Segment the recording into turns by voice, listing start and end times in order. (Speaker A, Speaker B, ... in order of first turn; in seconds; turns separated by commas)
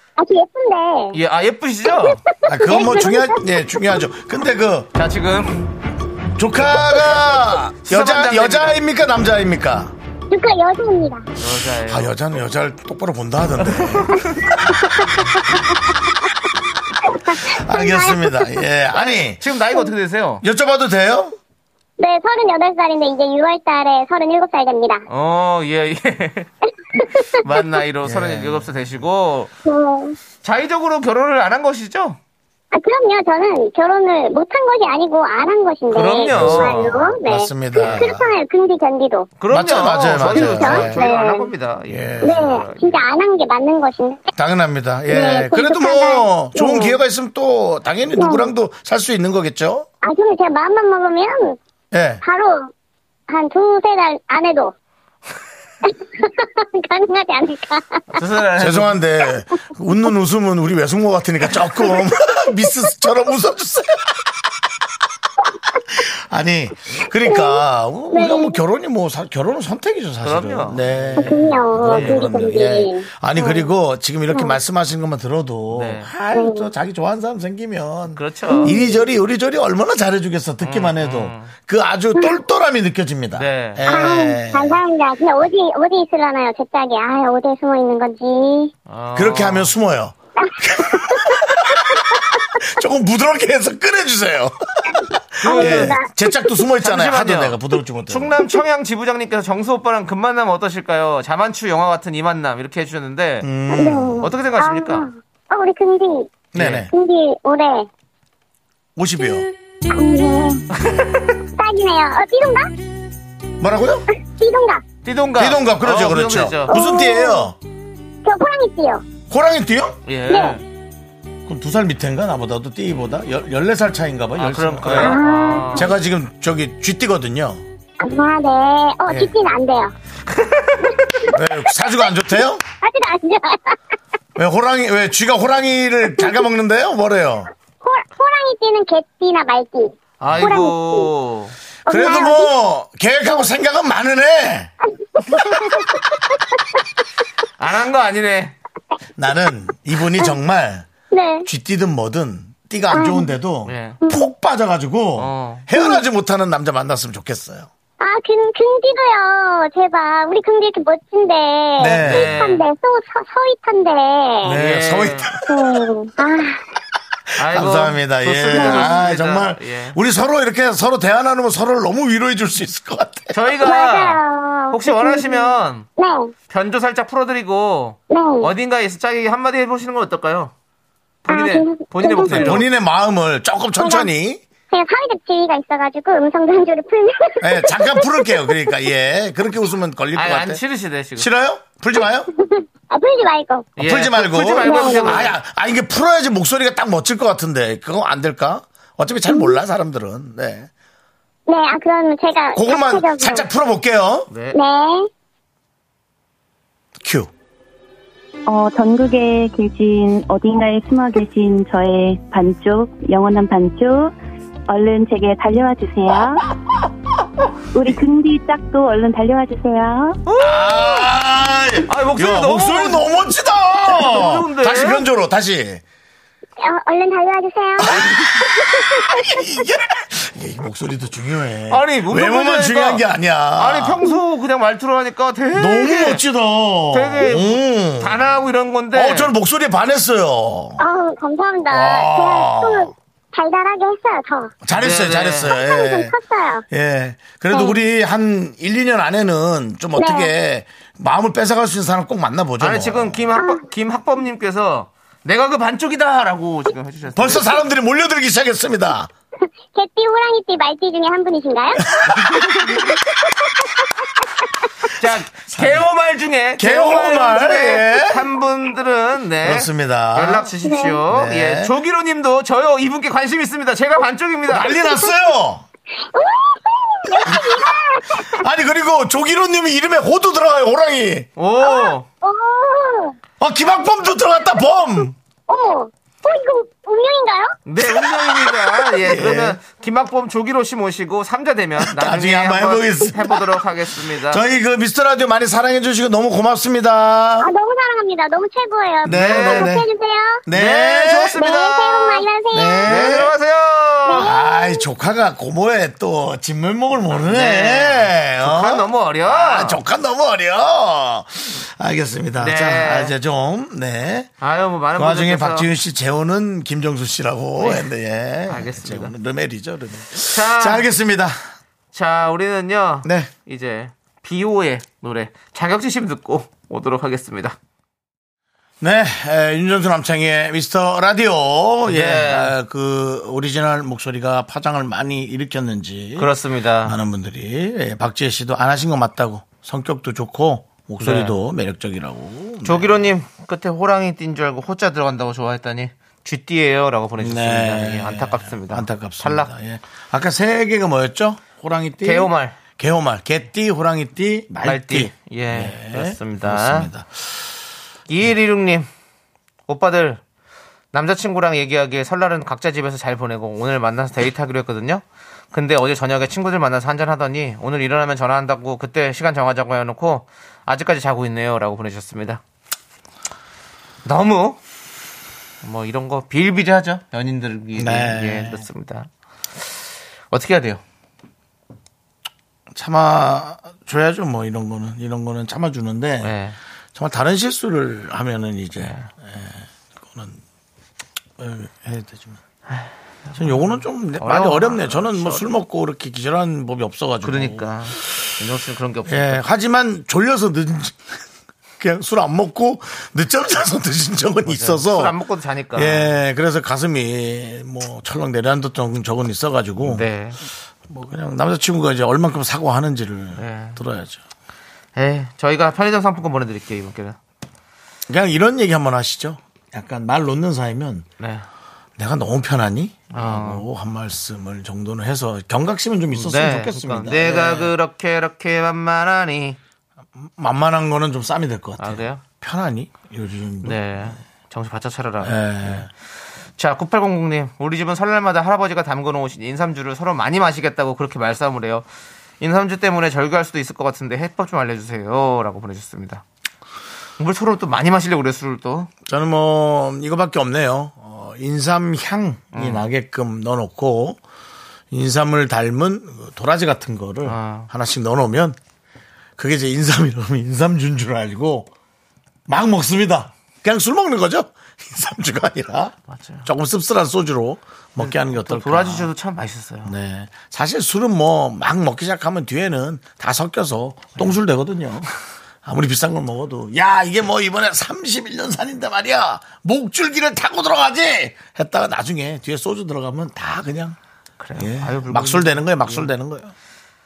Speaker A: 0.2-1.2, Speaker B: 1.1-2.2, Speaker A: 1.9-4.0, Speaker C: 2.5-4.9, Speaker B: 5.0-5.7, Speaker C: 6.4-9.9, Speaker B: 7.8-8.8, Speaker A: 10.3-11.3, Speaker B: 11.4-12.2, Speaker C: 11.9-15.2, Speaker B: 13.6-14.3, Speaker A: 14.7-16.3, Speaker A: 17.1-18.5, Speaker C: 17.4-19.4, Speaker B: 18.9-20.4, Speaker C: 20.4-21.4, Speaker A: 22.0-25.1, Speaker B: 25.1-26.5, Speaker A: 26.9-27.4, Speaker B: 27.2-29.5, Speaker C: 28.0-28.7, Speaker A: 29.6-30.2, Speaker B: 30.4-32.2, Speaker A: 32.7-39.3, Speaker B: 35.9-37.1, Speaker C: 36.3-38.3, Speaker B: 39.4-43.1, Speaker C: 39.5-41.1, Speaker A: 40.1-41.5, Speaker C: 41.9-42.7, Speaker A: 42.2-44.3, Speaker C: 44.4-49.9, Speaker A: 45.1-47.0, Speaker A: 48.2-48.5, Speaker A: 50.0-51.6, Speaker C: 51.9-52.2, Speaker A: 52.2-52.7, Speaker A: 53.3-54.8, Speaker A: 55.8-58.2, Speaker B: 58.1-59.0, Speaker C: 58.6-64.3, Speaker C: 65.9-84.8, Speaker A: 67.2-68.6, Speaker B: 70.2-72.3, Speaker A: 71.2-73.7, Speaker B: 75.7-76.1, Speaker A: 76.3-76.7, Speaker B: 78.2-78.8, Speaker A: 78.5-79.1, Speaker B: 80.6-81.5, Speaker A: 82.1-82.5, Speaker B: 83.4-83.9, Speaker A: 83.9-88.7, Speaker B: 88.9-89.7, Speaker C: 89.2-98.4, Speaker A: 90.4-92.4, Speaker A: 95.0-96.7, Speaker B: 95.4-96.0, Speaker B: 96.8-103.5, Speaker C: 103.4-104.3, Speaker A: 103.7-107.9, Speaker B: 104.2-105.1, Speaker C: 106.5-106.9, Speaker B: 106.6-106.9, Speaker C: 109.0-109.5, Speaker A: 109.9-110.7, Speaker B: 110.7-111.4, Speaker A: 111.6-112.7, Speaker C: 113.6-114.1, Speaker A: 114.1-114.8, Speaker B: 115.0-116.8, Speaker C: 115.4-117.6, Speaker A: 116.7-117.5, Speaker A: 118.2-119.0, Speaker C: 119.3-120.0, Speaker B: 120.1-120.6, Speaker A: 120.3-120.6, Speaker C: 121.5-127.6, Speaker B: 124.4-125.9, Speaker A: 124.9-125.9, Speaker A: 128.0-129.9, Speaker C: 129.1-129.3, Speaker B: 130.2-131.3, Speaker A: 131.1-133.8, Speaker C: 131.3-132.6, Speaker C: 134.4-137.5, Speaker A: 137.8-141.1, Speaker B: 140.2-141.6, Speaker A: 141.9-142.5, Speaker C: 141.9-144.7, Speaker A: 144.9-146.6, Speaker B: 147.6-148.6, Speaker C: 149.2-150.9, Speaker A: 151.1-151.5, Speaker C: 151.4-157.7, Speaker A: 152.9-153.3, Speaker B: 153.7-154.0, Speaker A: 154.0-154.3, Speaker B: 155.2-155.7, Speaker A: 155.7-156.0, Speaker A: 158.0-164.6, Speaker C: 161.8-162.4, Speaker B: 162.0-162.7, Speaker C: 164.4-165.4, Speaker B: 164.5-165.4, Speaker A: 165.5-166.6, Speaker C: 167.3-173.4, Speaker B: 167.4-170.0, Speaker A: 168.5-169.0, Speaker B: 173.3-175.9, Speaker A: 173.6-176.3, Speaker B: 176.5-180.5, Speaker A: 178.1-178.5, Speaker B: 181.3-182.7, Speaker A: 181.3-182.6, Speaker C: 182.2-184.4, Speaker A: 183.8-184.1, Speaker A: 184.7-188.8, Speaker C: 187.4-190.6, Speaker B: 190.1-191.3, Speaker C: 191.2-192.3, Speaker A: 191.9-193.8, Speaker B: 193.8-195.4, Speaker C: 193.8-200.7, Speaker A: 194.6-195.3, Speaker A: 199.3-199.6, Speaker A: 201.5-203.5, Speaker C: 202.6-204.3, Speaker B: 204.3-204.6, Speaker A: 204.5-205.1, Speaker C: 207.0-207.3, Speaker D: 208.5-214.1, Speaker D: 214.7-216.5, Speaker D: 217.7-220.2, Speaker B: 220.3-221.1, Speaker C: 220.4-225.8, Speaker B: 221.9-223.1, Speaker B: 223.8-225.1, Speaker A: 226.6-229.4, Speaker C: 227.8-234.0, Speaker B: 231.7-233.1, Speaker B: 233.6-236.2, Speaker C: 235.6-238.2, Speaker B: 236.9-239.3, Speaker C: 238.9-240.8, Speaker A: 240.8-244.6, Speaker C: 241.7-242.9, Speaker C: 244.6-246.2, Speaker B: 244.7-245.5, Speaker A: 245.5-246.7, Speaker C: 246.7-253.4, Speaker A: 247.5-247.8, Speaker A: 250.0-250.3, Speaker B: 252.6-257.6, Speaker A: 253.4-253.6, Speaker C: 257.1-259.1, Speaker A: 259.4-261.9, Speaker C: 261.9-262.9, Speaker B: 262.1-262.9, Speaker A: 263.0-263.9, Speaker B: 264.9-274.8, Speaker C: 265.0-265.9, Speaker C: 266.6-268.3, Speaker C: 269.4-270.5, Speaker A: 270.6-271.0, Speaker C: 271.1-271.7, Speaker C: 274.5-275.6, Speaker A: 274.8-275.1, Speaker A: 276.0-278.4, Speaker C: 277.1-281.3, Speaker B: 281.4-282.1, Speaker A: 281.6-283.2, Speaker C: 283.4-285.1, Speaker A: 285.5-287.6, Speaker B: 287.7-294.4, Speaker C: 287.8-289.6, Speaker C: 291.8-297.5, Speaker A: 297.4-300.4, Speaker C: 299.0-299.9, Speaker B: 299.1-299.7, Speaker C: 300.5-301.5, Speaker B: 300.5-302.3, Speaker A: 301.4-303.2, Speaker C: 302.5-303.3, Speaker B: 302.8-304.3, Speaker A: 304.1-304.8, Speaker C: 304.2-314.3, Speaker B: 307.1-309.8, Speaker B: 312.4-313.2, Speaker B: 314.4-315.7, Speaker C: 315.0-321.4, Speaker B: 317.6-317.9, Speaker B: 318.5-319.1, Speaker B: 320.3-320.9, Speaker B: 321.9-327.6, Speaker C: 323.0-323.3, Speaker C: 328.8-336.3, Speaker B: 331.9-332.5, Speaker B: 336.2-337.0, Speaker C: 336.8-343.1, Speaker B: 341.0-341.4, Speaker B: 342.6-349.5, Speaker C: 347.2-357.3, Speaker B: 352.0-352.6, Speaker B: 354.6-356.9, Speaker B: 358.1-358.9, Speaker B: 359.7-360.2, Speaker B: 360.9-372.4, Speaker B: 374.1-374.6, Speaker B: 375.6-379.1, Speaker C: 377.8-378.6, Speaker B: 380.3-380.8, Speaker C: 382.7-386.3, Speaker B: 386.2-386.6, Speaker C: 386.9-390.4, Speaker B: 388.8-389.1, Speaker C: 391.4-392.4, Speaker B: 392.7-395.6, Speaker C: 393.4-397.7, Speaker B: 397.2-399.4, Speaker C: 399.1-401.2, Speaker C: 401.8-405.1, Speaker B: 404.5-406.1, Speaker C: 405.8-410.1, Speaker B: 409.8-410.4, Speaker C: 410.9-414.2, Speaker B: 413.4-413.8, Speaker B: 415.0-417.2, Speaker C: 418.1-421.1, Speaker B: 421.2-421.4, Speaker C: 422.0-427.8, Speaker B: 423.1-423.7, Speaker B: 426.1-429.6, Speaker C: 430.2-434.2, Speaker B: 431.8-432.2, Speaker B: 433.6-435.9, Speaker C: 435.2-435.9, Speaker B: 436.6-441.9, Speaker B: 442.4-446.2, Speaker B: 447.2-448.9, Speaker C: 449.1-454.2, Speaker B: 452.5-452.9, Speaker C: 454.9-458.6, Speaker B: 457.2-457.7, Speaker C: 459.4-461.7, Speaker C: 462.5-469.1, Speaker B: 466.1-466.5, Speaker B: 468.0-469.9, Speaker C: 469.9-475.1, Speaker C: 475.6-484.0, Speaker B: 484.4-486.1, Speaker C: 484.6-486.5